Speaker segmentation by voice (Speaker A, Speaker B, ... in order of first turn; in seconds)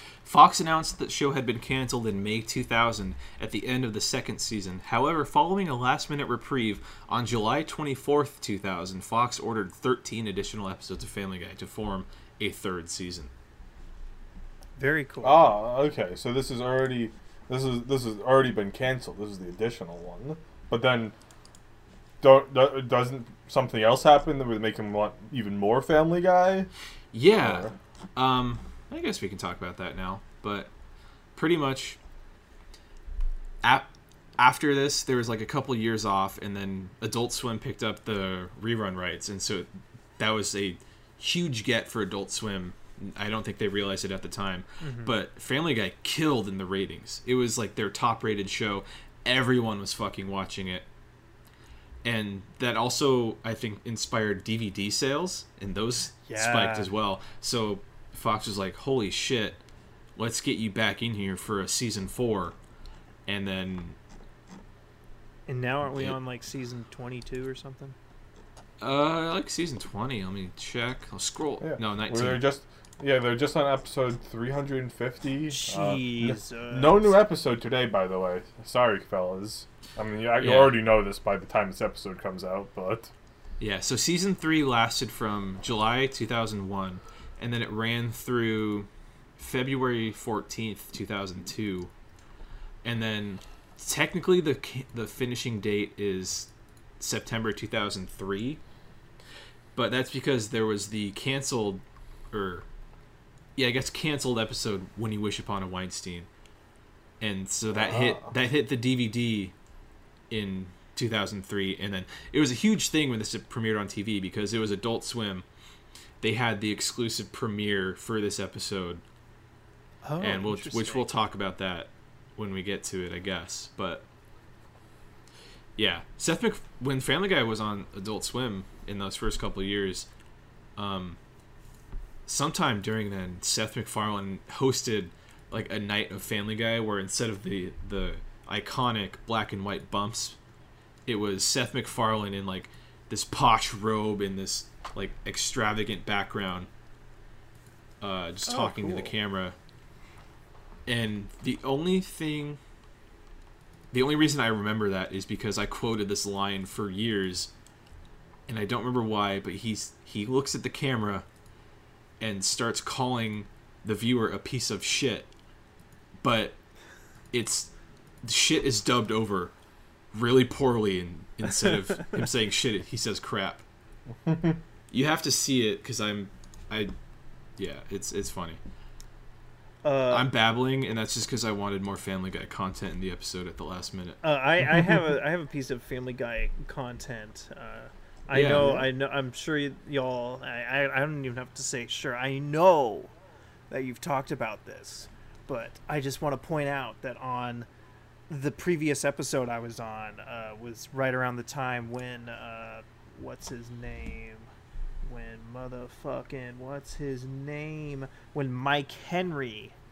Speaker A: 0.2-13.3, 27.1-30.7, 31.4-32.0, 33.6-50.9, 52.0-59.6, 60.2-62.6, 63.3-64.0, 65.9-66.2, 68.8-72.4, 80.4-80.8, 83.6-91.9, 92.8-98.6, 99.8-102.7, 103.6-106.3, 107.2-109.5, 110.3-115.5, 116.2-119.0, 120.2-124.0, 125.8-130.1, 130.8-131.2, 132.3-140.4, 141.1-146.7, 148.0-149.6, 150.9-152.6, 153.9-157.5, 158.5-161.2, 162.2-165.3, 166.2-166.6, 167.3-167.7, 168.2-169.5, 170.1-173.6, 174.9-176.9, 177.6-178.6, 180.1-184.2, 188.3-188.9
Speaker B: 14.8-15.5, 44.8-45.2, 56.3-56.9, 65.5-68.0, 75.5-77.2, 120.0-121.1, 148.5-149.1, 179.8-180.3, 184.2-193.1, 193.7-197.7, 198.3-204.5, 205.0-209.7
Speaker C: 15.2-21.1, 22.2-26.7, 27.4-27.7, 71.6-83.1, 107.9-108.2, 174.3-174.6